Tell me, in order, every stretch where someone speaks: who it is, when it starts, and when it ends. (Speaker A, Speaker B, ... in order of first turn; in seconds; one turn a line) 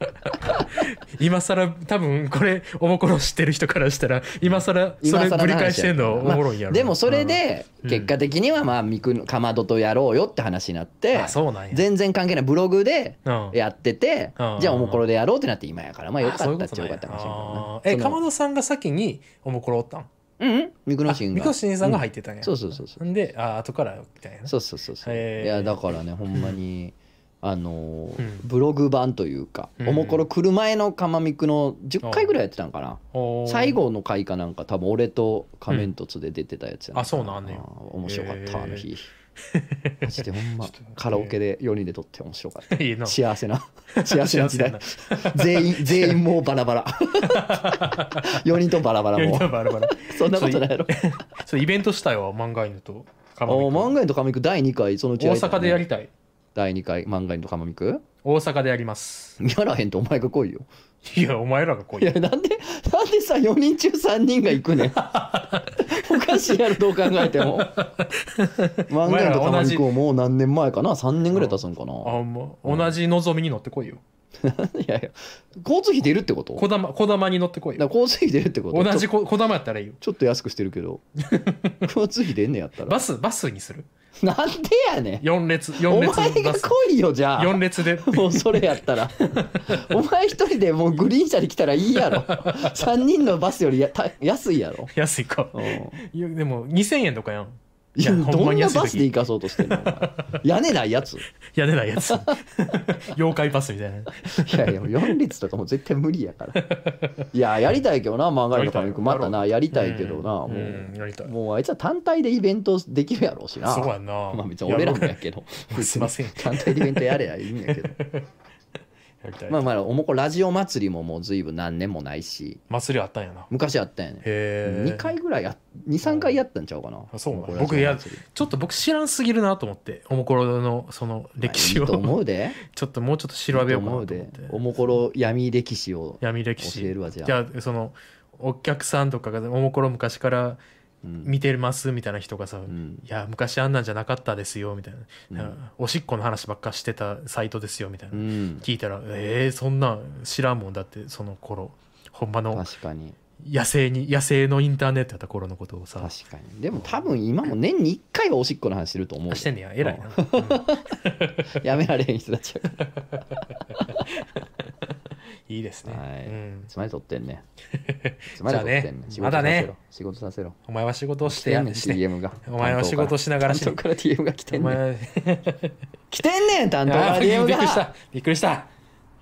Speaker A: 0.2-8.1
Speaker B: 0.5-0.8
Speaker B: 4.4-18.2
Speaker A: 11.1-11.8
Speaker A: 13.2-13.6
Speaker A: 14.4-15.0
Speaker A: 16.2-20.1
Speaker B: 20.4-23.0
Speaker A: 21.1-26.6
Speaker B: 24.5-39.1
Speaker A: 28.2-28.4
Speaker A: 29.8-30.2
Speaker A: 32.0-32.3
Speaker A: 33.1-33.8
Speaker A: 36.9-38.9
Speaker A: 39.4-41.3
Speaker B: 40.0-51.0
Speaker A: 42.7-43.2
Speaker A: 43.9-46.2
Speaker A: 47.2-48.4
Speaker A: 49.1-53.9
Speaker B: 53.5-55.9
Speaker A: 55.2-56.1
Speaker B: 56.5-58.0
Speaker A: 58.2-59.4
Speaker B: 59.4-60.6
Speaker A: 61.0-62.1
Speaker B: 62.0-65.1
Speaker A: 64.9-66.5
Speaker B: 65.7-67.8
Speaker A: 67.0-70.0
Speaker B: 68.9-73.0
Speaker A: 71.3-74.0
Speaker B: 74.4-76.7
Speaker A: 76.5-77.9
Speaker B: 77.8-79.1
Speaker A: 78.7-80.0
Speaker B: 80.0-81.0
Speaker A: 81.3-81.9
Speaker B: 81.8-83.0
Speaker A: 82.8-83.9
Speaker B: 84.2-94.9
Speaker A: 85.2-86.7
Speaker A: 87.3-89.9
Speaker A: 91.9-92.9
Speaker A: 94.9-100.4
Speaker B: 95.5-96.0
Speaker B: 98.0-101.3
Speaker A: 101.5-105.1
Speaker B: 104.4-106.6
Speaker A: 106.5-107.2
Speaker B: 107.3-118.0
Speaker A: 108.5-111.3
Speaker A: 113.6-118.2
Speaker A: 119.2-119.7
Speaker B: 119.5-122.6
Speaker A: 122.7-123.5
Speaker B: 123.5-128.2
Speaker A: 124.2-125.2
Speaker A: 126.0-126.4
Speaker A: 127.1-134.6
Speaker B: 131.4-132.6
Speaker B: 133.5-137.4
Speaker A: 136.2-140.6
Speaker B: 141.0-141.3
Speaker A: 141.2-152.7
Speaker B: 142.7-143.0
Speaker B: 145.3-145.6
Speaker B: 148.1-148.6
Speaker B: 152.5-153.2
Speaker A: 153.4-156.1
Speaker B: 156.0-160.9
Speaker A: 159.3-161.6
Speaker B: 161.5-164.1
Speaker A: 163.1-164.4
Speaker A: 165.5-166.7
Speaker B: 165.8-167.4
Speaker A: 167.7-169.7
Speaker B: 168.3-170.6
Speaker A: 170.7-173.8
Speaker B: 171.2-174.8
Speaker A: 174.5-175.7
Speaker B: 176.1-177.9
Speaker A: 176.8-178.7